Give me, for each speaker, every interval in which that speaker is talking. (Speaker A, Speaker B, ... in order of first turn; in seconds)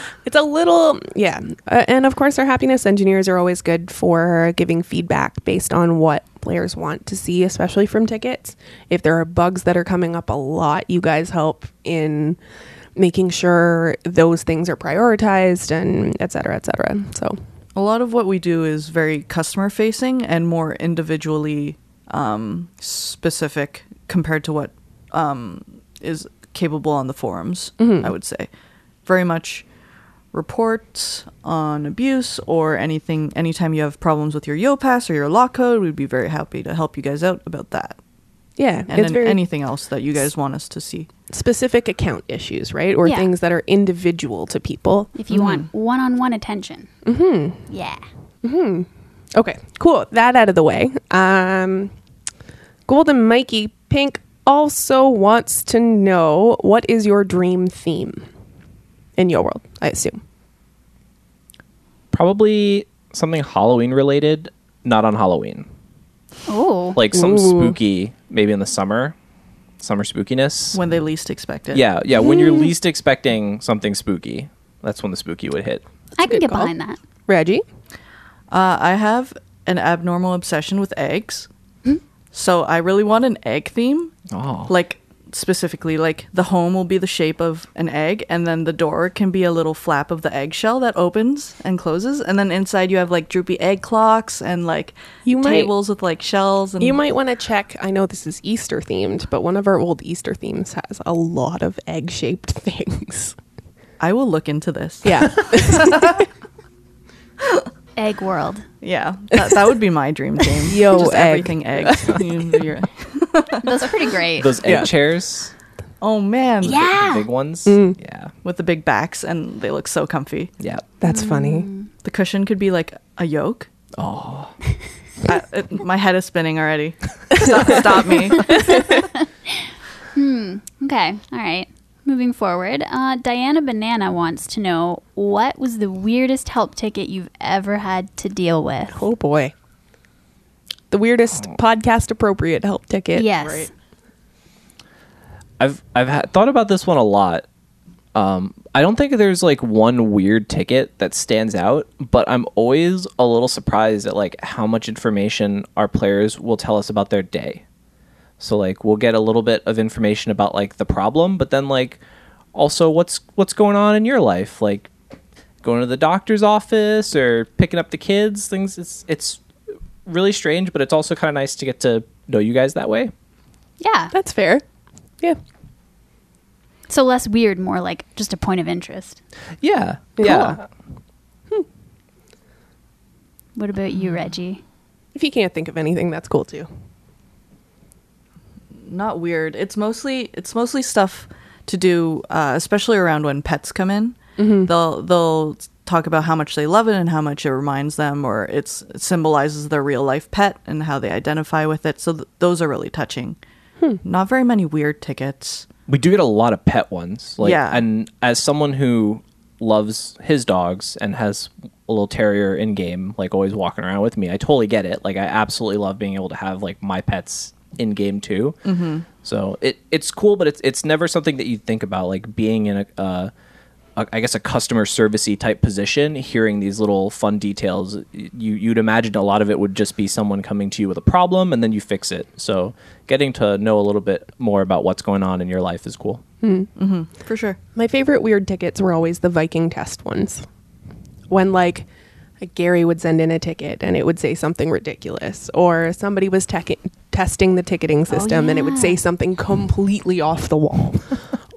Speaker A: 0.2-12.4, 12.9-17.4, 27.8-28.1, 38.6-39.4, 41.3-45.1, 47.0-47.6, 48.4-51.9, 52.9-58.2, 59.2-60.2, 67.1-67.8, 72.2-72.7, 76.2-76.7, 77.3-77.6, 95.2-95.7, 96.8-103.3, 105.0-106.2, 110.6-112.3, 114.6-114.9, 117.7-118.0, 121.0-121.7, 128.5-128.8, 138.9-139.5, 140.9-143.7, 174.1-174.6, 180.2-180.6, 185.1-186.7, 194.4-194.7, 236.4-236.7, 237.8-240.4, 241.3-241.9, 242.4-251.2
Speaker B: 17.7-28.5, 29.1-29.6, 30.3-38.0, 38.9-41.1, 45.3-45.7, 70.7-71.8, 78.5-81.5, 82.3-84.1, 84.7-97.0, 104.0-106.2, 108.8-113.8, 116.0-116.8, 118.4-120.5, 122.0-123.7, 125.2-129.0, 188.8-203.4, 204.0-205.7, 207.4-207.8, 218.6-219.1, 236.8-237.6
Speaker C: 43.0-43.3, 45.1-46.9, 47.7-48.0, 66.5-67.0, 76.2-77.0, 108.0-108.7, 113.6-114.6, 116.6-117.3, 121.0-121.9, 130.1-139.0, 143.1-143.7, 173.8-174.1, 176.9-179.2, 183.6-184.6, 248.1-249.0
Speaker D: 62.1-65.7, 66.9-69.1, 69.8-70.8, 71.7-75.8, 84.3-84.7, 114.3-115.5, 116.6-118.3, 120.6-120.8, 124.0-124.5, 145.6-147.4, 148.1-157.6, 158.4-162.0, 162.5-164.9, 165.6-169.4, 170.1-173.1, 179.6-180.6, 205.9-218.6, 219.1-223.3, 224.0-236.2